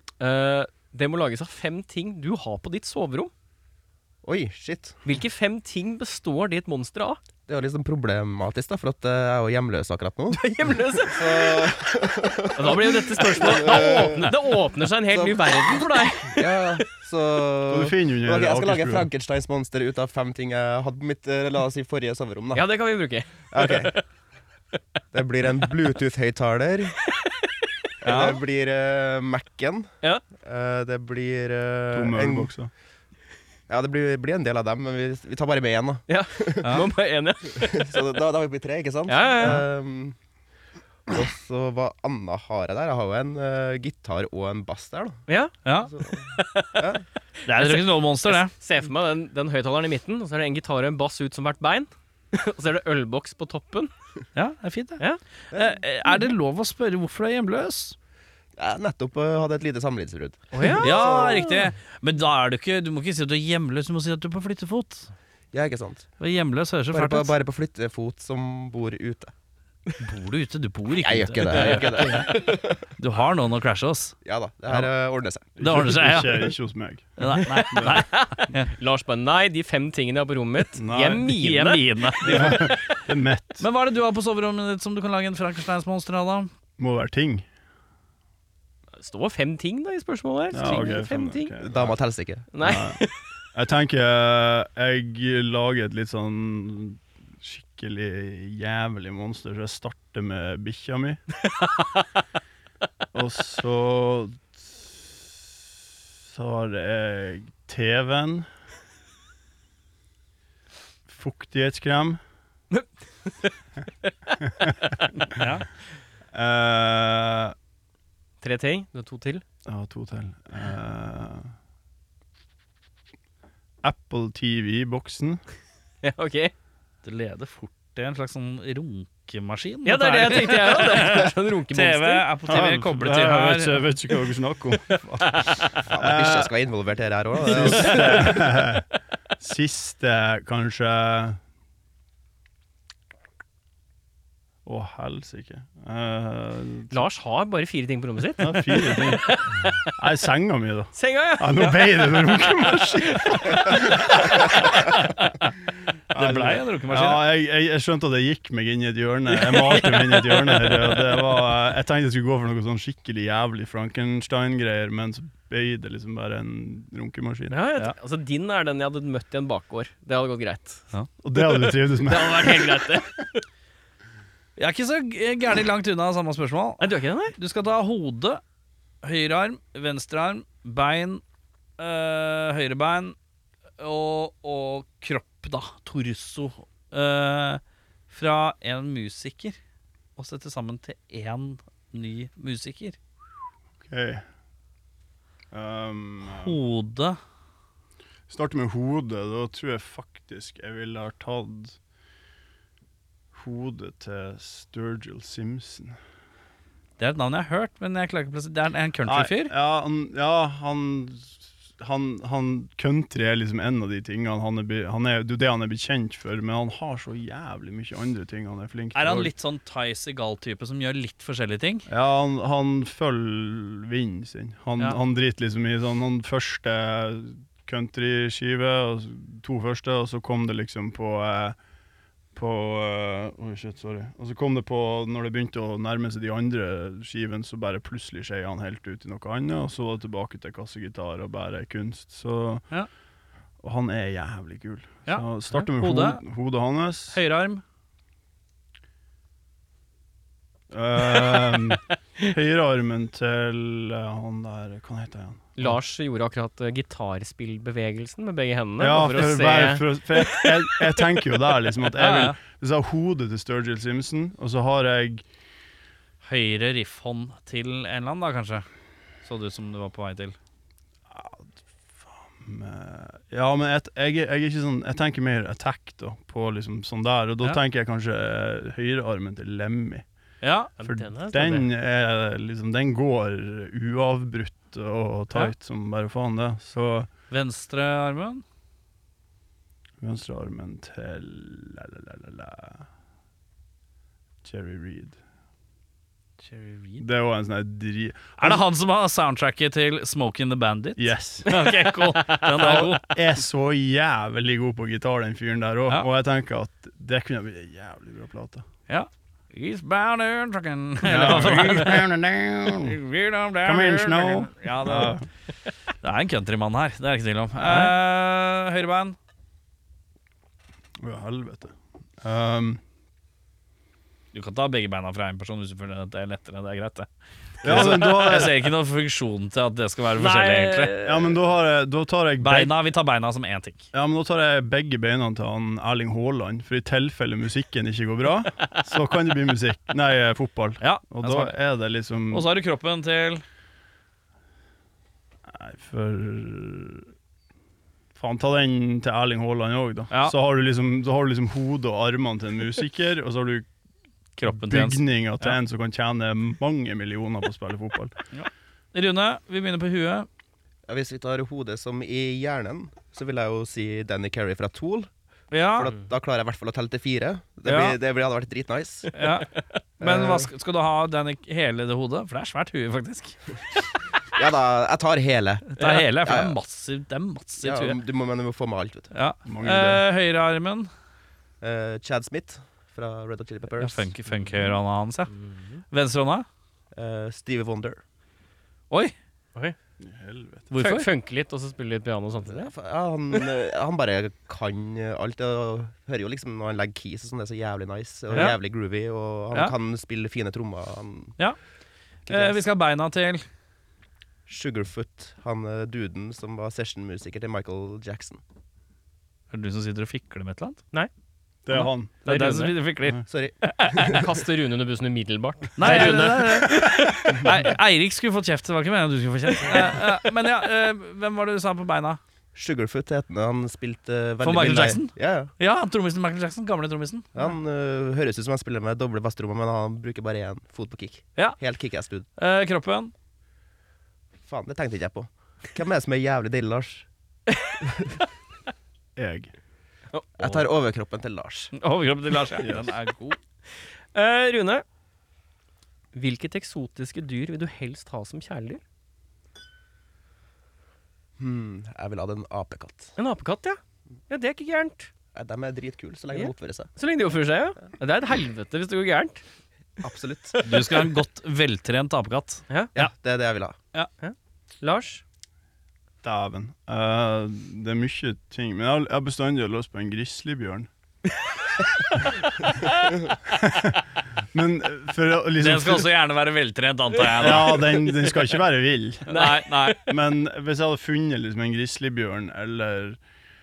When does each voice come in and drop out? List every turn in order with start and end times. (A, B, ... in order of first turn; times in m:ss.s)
0:00.2-0:03.3 A
0:04.2-0:05.0 B
0:05.0-0:07.2 A
0:07.5-0:22.7 B
0:10.3-0:11.9 A
0:12.5-0:16.9 A
0:17.7-0:19.1 C
0:22.5-0:24.0 A
0:23.5-0:24.0 B
0:25.1-0:27.0 B
0:28.0-0:32.5 B
0:28.0-0:28.4 A
0:31.9-0:32.7 C
0:33.7-0:36.8 B
0:36.1-0:37.9 A
0:36.6-0:36.9 D
0:37.6-0:40.2 B
0:39.1-0:39.6 A
0:41.1-0:45.3 B
0:45.3-0:46.9 A
0:45.6-0:45.9 D
0:45.8-0:47.0 B
0:47.4-0:48.5 D
0:47.6-0:53.9 A
0:54.4-0:58.0 D
0:55.5-0:55.8 B
0:58.6-1:01.5 B
1:00.5-1:00.9 A
1:00.8-1:05.1 D
1:05.5-1:06.1 B
1:06.2-1:07.3 D
1:06.9-1:09.3 B
1:10.0-1:12.3 D
1:11.0-1:12.8 B
1:11.4-1:12.5 A
1:13.0-1:14.2 D
1:14.2-1:15.5 B
1:15.6-1:17.1 C
1:15.6-1:16.5 D
1:17.2-1:18.7 D
1:17.4-1:22.8 A
1:17.7-1:18.0 C
1:20.8-1:21.3 C
1:21.3-1:22.7 D
1:22.2-1:23.6 C
1:23.6-1:26.5 D
1:26.8-1:27.5 C
1:29.0-1:31.5 A
1:30.5-1:32.0 C
1:31.6-1:32.5 B
1:32.5-1:33.2 A
1:32.6-1:33.0 C
1:33.5-1:41.2 C
1:43.1-1:45.1 C
1:46.3-1:48.5 C
1:51.1-1:52.2 C
1:52.7-1:53.5 A
1:54.4-1:54.8 C
1:55.4-1:55.7 D
1:56.3-1:57.6 C
1:58.4-1:59.4 A
1:59.7-2:01.5 C
2:03.8-2:05.4 C
2:06.0-2:06.5 A
2:07.0-2:13.9 D
2:09.8-2:12.3 A
2:12.5-2:16.5 C
2:15.0-2:15.7 A
2:15.9-2:18.4 B
2:17.5-2:18.9 C
2:17.6-2:18.4 A
2:19.4-2:21.4 C
2:24.6-2:27.0 C
2:26.9-2:29.8 A
2:28.4-2:35.0 C
2:31.0-2:34.4 A
2:34.7-2:35.4 D
2:36.1-2:47.6 C
2:36.2-2:37.3 D
2:39.5-2:40.8 A
2:47.5-2:50.8 A
2:51.2-2:52.9 C
2:51.5-2:53.4 A
2:54.6-2:58.4 D
2:56.8-2:57.4 A
2:59.0-3:01.2 D
3:01.8-3:03.2 D
3:03.8-3:09.6 D
3:10.2-3:13.0 D
3:13.8-3:14.2 C
3:15.5-3:16.6 C
3:16.3-3:17.2 D
3:18.3-3:21.8 C
3:23.3-3:26.0 C
3:27.0-3:29.5 D
3:29.0-3:39.3 C
3:39.0-3:41.9 D
3:41.9-3:51.6 C
3:52.3-4:02.7 C
4:03.6-4:07.2 C
4:05.1-4:06.2 D
4:07.1-4:07.6 D
4:10.7-4:15.8 C
4:15.6-4:21.1 A
4:18.8-4:25.2 C
4:22.0-4:22.4 D
4:26.2-4:28.7 D
4:29.2-4:30.4 D
4:31.1-4:40.0 C
4:40.4-4:40.7 D
4:40.8-4:41.7 A
4:40.8-4:47.1 C
4:47.3-4:48.4 D
4:50.0-4:52.9 C
4:54.4-4:55.2 C
4:56.4-4:57.0 D
4:57.0-4:58.6 C
4:58.4-5:03.2 D
5:01.0-5:01.5 C
5:01.5-5:02.8 A
5:02.6-5:08.7 C
5:08.9-5:12.1 D
5:11.0-5:13.0 C
5:12.7-5:15.2 D
5:13.6-5:15.2 C
5:16.0-5:19.2 D
5:17.6-5:17.9 C
5:21.0-5:22.8 C
5:24.3-5:27.1 D
5:27.6-5:31.1 D
5:27.6-5:28.5 C
5:30.2-5:31.2 A
5:31.0-5:32.7 C
5:32.4-5:33.9 D
5:33.9-5:42.5 C
5:40.8-5:41.6 D
5:42.3-5:43.4 D
5:45.5-5:47.1 C
5:48.2-5:53.7 C
5:54.4-5:55.6 D
5:54.4-5:58.1 C
5:58.3-6:00.3 D
6:00.9-6:05.1 B
6:05.5-6:05.9 D
6:05.8-6:09.1 B
6:07.7-6:08.0 D
6:09.1-6:09.5 D
6:10.0-6:10.5 B
6:10.0-6:13.4 D
6:14.3-6:16.6 B
6:15.7-6:18.0 D
6:17.6-6:19.1 B
6:19.1-6:20.9 D
6:19.4-6:20.0 C
6:21.6-6:24.1 B
6:23.8-6:25.3 D
6:25.6-6:25.8 A
6:25.9-6:26.5 D
6:26.9-6:28.0 B
6:30.0-6:30.7 C
6:30.7-6:31.1 D
6:30.8-6:32.7 A
6:32.5-6:41.4 B
6:42.3-6:43.4 D
6:42.3-6:42.6 B
6:44.5-6:48.4 B
6:49.5-6:50.8 D
6:51.7-6:52.1 C
6:51.7-6:54.2 D
6:52.2-6:52.8 A
6:53.3-6:54.3 B
6:54.1-6:57.5 A
6:55.8-7:02.2 D
6:59.7-7:00.0 A
7:02.6-7:05.5 B
7:04.4-7:07.3 D
7:07.4-7:12.3 B
7:12.4-7:13.1 D
7:14.4-7:17.1 B
7:17.8-7:18.2 B
7:19.2-7:19.5 C
7:20.4-7:21.7 B
7:20.4-7:20.6 D
7:21.7-7:23.4 D
7:22.6-7:22.9 C
7:24.1-7:24.8 A
7:26.1-7:28.8 A
7:31.4-7:33.1 B
7:33.2-7:35.1 A
7:35.3-7:36.9 B
7:36.3-7:39.4 A
7:40.0-7:40.6 B
7:40.6-7:43.1 D
7:42.9-7:43.8 B
7:44.2-7:45.2 A
7:46.2-7:50.9 C
7:53.4-7:56.1 C
7:55.6-7:57.8 D
7:57.4-7:59.4 C
7:57.4-7:58.3 A
7:59.3-8:00.0 D
7:59.3-8:00.0 A
8:00.0-8:03.2 C